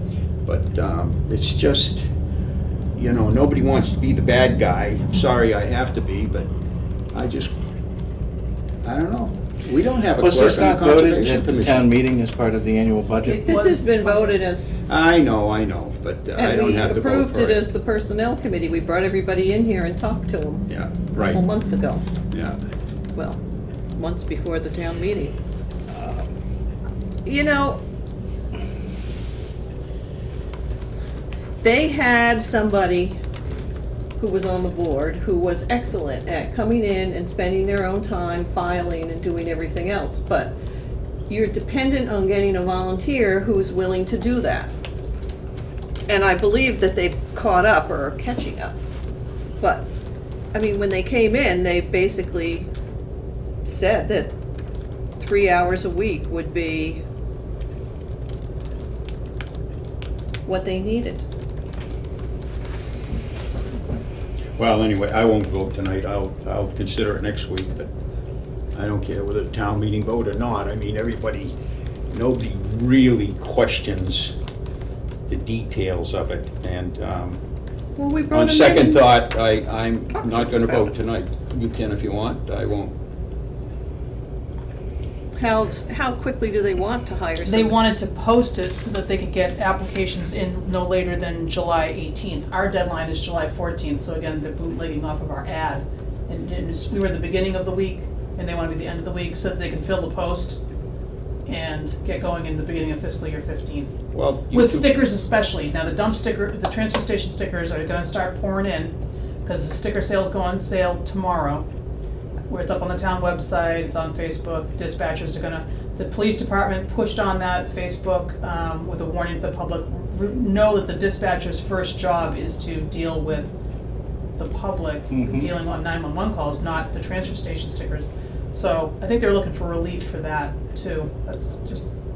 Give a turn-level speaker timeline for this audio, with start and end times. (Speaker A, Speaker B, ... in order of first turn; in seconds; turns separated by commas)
Speaker A: 0.5-2.1, Speaker A: 3.0-6.5, Speaker A: 7.1-7.5, Speaker A: 8.8-11.9, Speaker B: 10.2-13.4, Speaker C: 13.2-14.4, Speaker D: 13.4-14.6, Speaker A: 14.9-17.6, Speaker D: 16.4-22.0, Speaker A: 20.7-21.4, Speaker A: 22.3-22.6, Speaker D: 23.1-23.4, Speaker D: 23.9-25.4, Speaker D: 27.2-27.8, Speaker D: 31.6-33.2, Speaker D: 34.2-40.5, Speaker D: 41.3-44.7, Speaker D: 46.1-48.8, Speaker D: 49.6-49.9, Speaker D: 50.5-52.7, Speaker D: 53.6-54.3, Speaker D: 55.2-57.0, Speaker D: 60.5-61.2, Speaker A: 64.6-67.9, Speaker A: 68.7-71.5, Speaker A: 72.1-74.3, Speaker A: 75.3-77.4, Speaker D: 78.0-79.1, Speaker A: 78.3-82.9, Speaker D: 80.1-80.6, Speaker D: 85.4-87.8, Speaker C: 87.4-100.6, Speaker C: 101.5-103.9, Speaker A: 104.1-105.0, Speaker C: 104.5-111.6, Speaker C: 112.5-123.5, Speaker C: 124.4-131.8, Speaker B: 125.1-125.5